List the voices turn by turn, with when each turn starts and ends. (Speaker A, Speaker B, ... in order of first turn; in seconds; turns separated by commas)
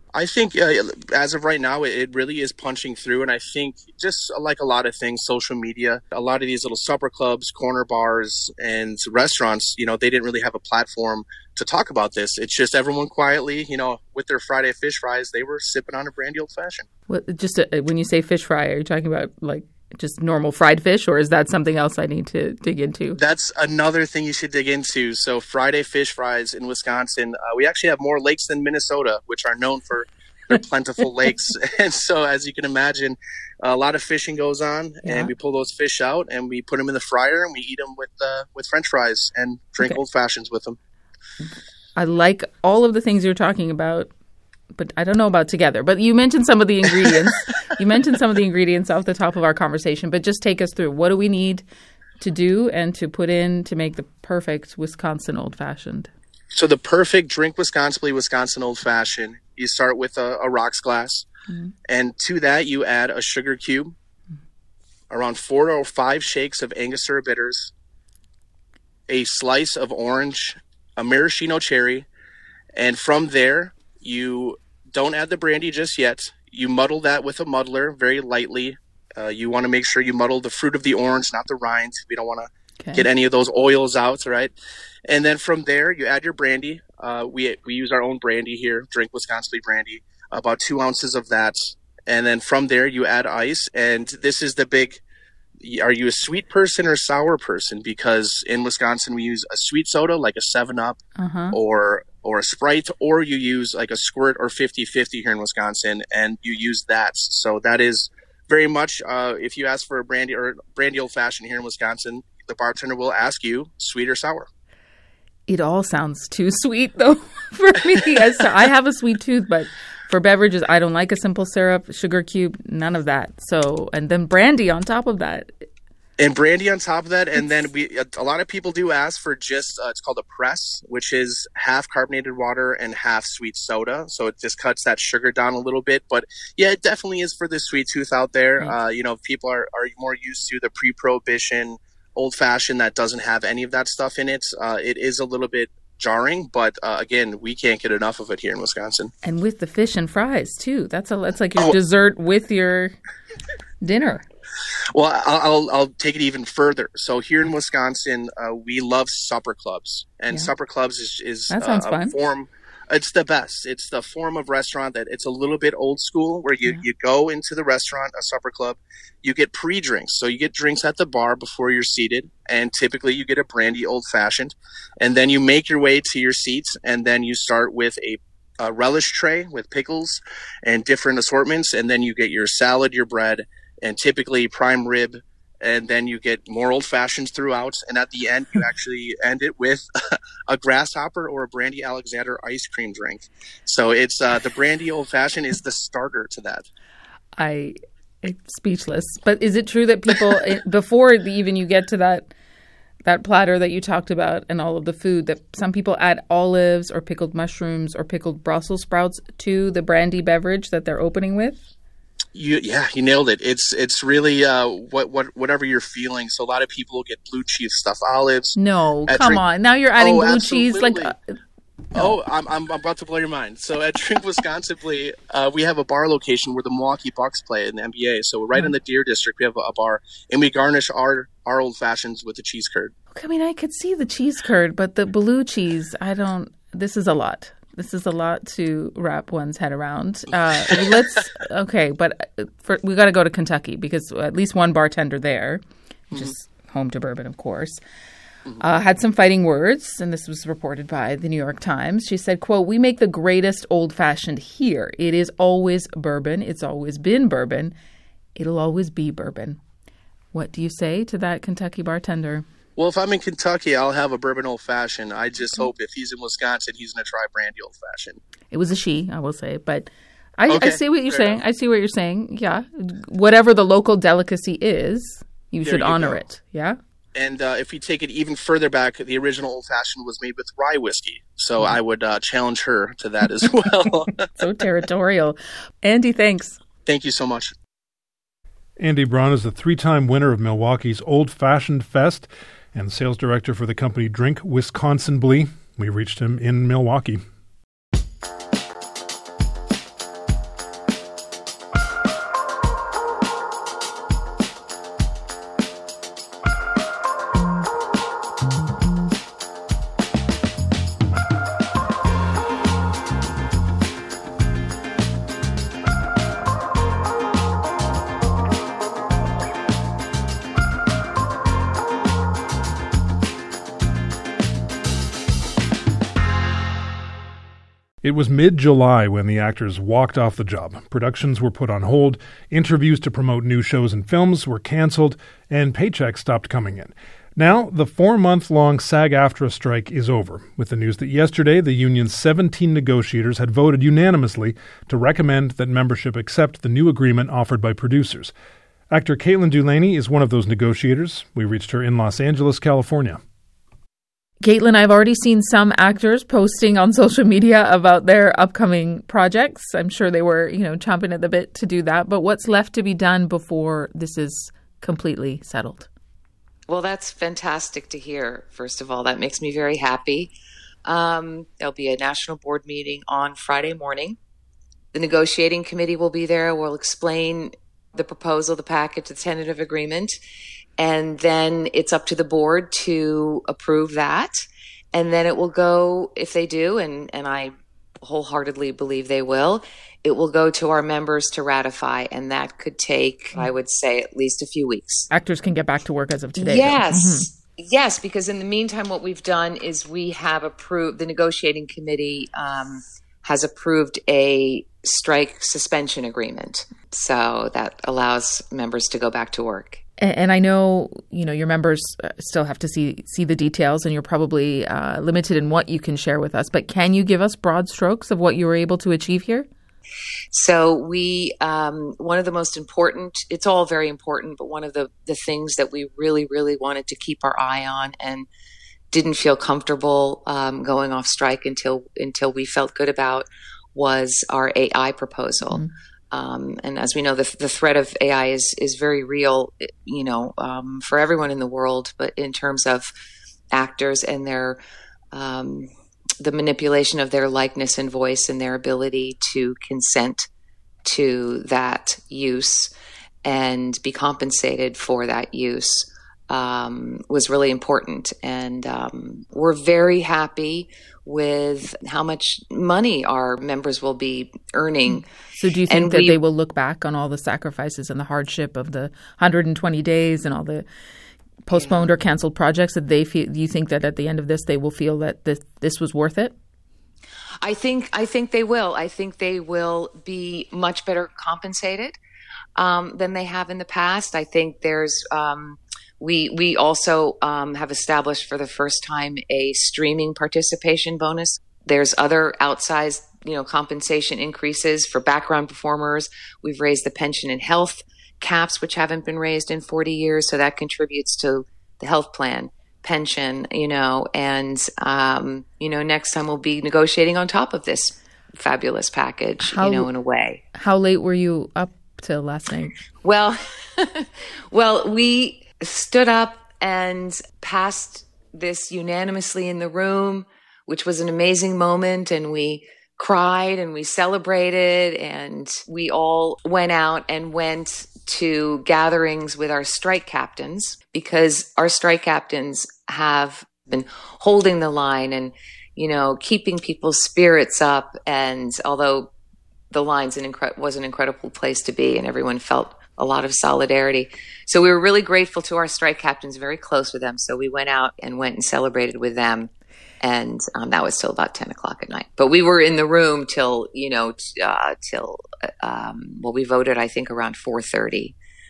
Speaker A: 0.1-16.9, Speaker B: 17.1-23.2, Speaker A: 23.2-40.8, Speaker B: 35.0-35.3, Speaker B: 42.0-44.1, Speaker B: 44.7-51.6, Speaker B: 52.2-56.1, Speaker A: 56.5-61.3, Speaker A: 61.9-64.0, Speaker A: 65.1-67.7, Speaker A: 69.1-72.1, Speaker A: 72.8-84.5, Speaker B: 82.8-83.1, Speaker A: 85.1-95.0, Speaker A: 95.6-101.0, Speaker B: 101.2-101.6, Speaker A: 101.5-114.5, Speaker B: 115.5-125.5, Speaker A: 126.2-149.1, Speaker B: 149.2-153.0, Speaker B: 153.8-154.2, Speaker A: 154.9-189.8, Speaker B: 161.5-162.2, Speaker A: 190.5-196.7, Speaker B: 197.4-202.3, Speaker B: 203.1-211.6, Speaker A: 212.3-218.6, Speaker B: 218.6-221.3, Speaker A: 219.1-219.4, Speaker A: 220.0-221.1, Speaker A: 221.9-232.9, Speaker B: 233.1-247.8, Speaker B: 248.6-257.7, Speaker B: 258.4-259.6, Speaker B: 260.3-262.4, Speaker A: 262.8-268.2, Speaker B: 268.5-276.8, Speaker A: 270.5-271.4, Speaker A: 275.6-276.2, Speaker A: 277.1-284.3, Speaker B: 284.2-286.6, Speaker A: 286.9-287.5, Speaker C: 288.8-297.2, Speaker C: 328.0-348.3, Speaker C: 348.9-353.2, Speaker B: 354.4-365.9, Speaker D: 366.7-370.3, Speaker D: 370.9-374.2, Speaker D: 374.9-380.2, Speaker D: 380.8-395.1, Speaker B: 395.1-397.3, Speaker D: 396.4-409.8, Speaker B: 410.0-419.5, Speaker D: 420.3-428.3, Speaker D: 428.9-435.6, Speaker D: 436.1-442.9, Speaker D: 443.5-444.6, Speaker D: 445.1-445.7, Speaker D: 446.2-450.3, Speaker D: 450.8-452.7, Speaker D: 453.2-465.1, Speaker B: 464.9-470.7, Speaker D: 465.7-466.2, Speaker B: 471.5-476.4, Speaker D: 471.6-471.8, Speaker D: 477.4-482.0, Speaker D: 482.6-510.4, Speaker B: 509.4-509.9, Speaker B: 510.5-512.7, Speaker D: 513.0-539.1, Speaker D: 539.7-549.5, Speaker D: 550.0-558.1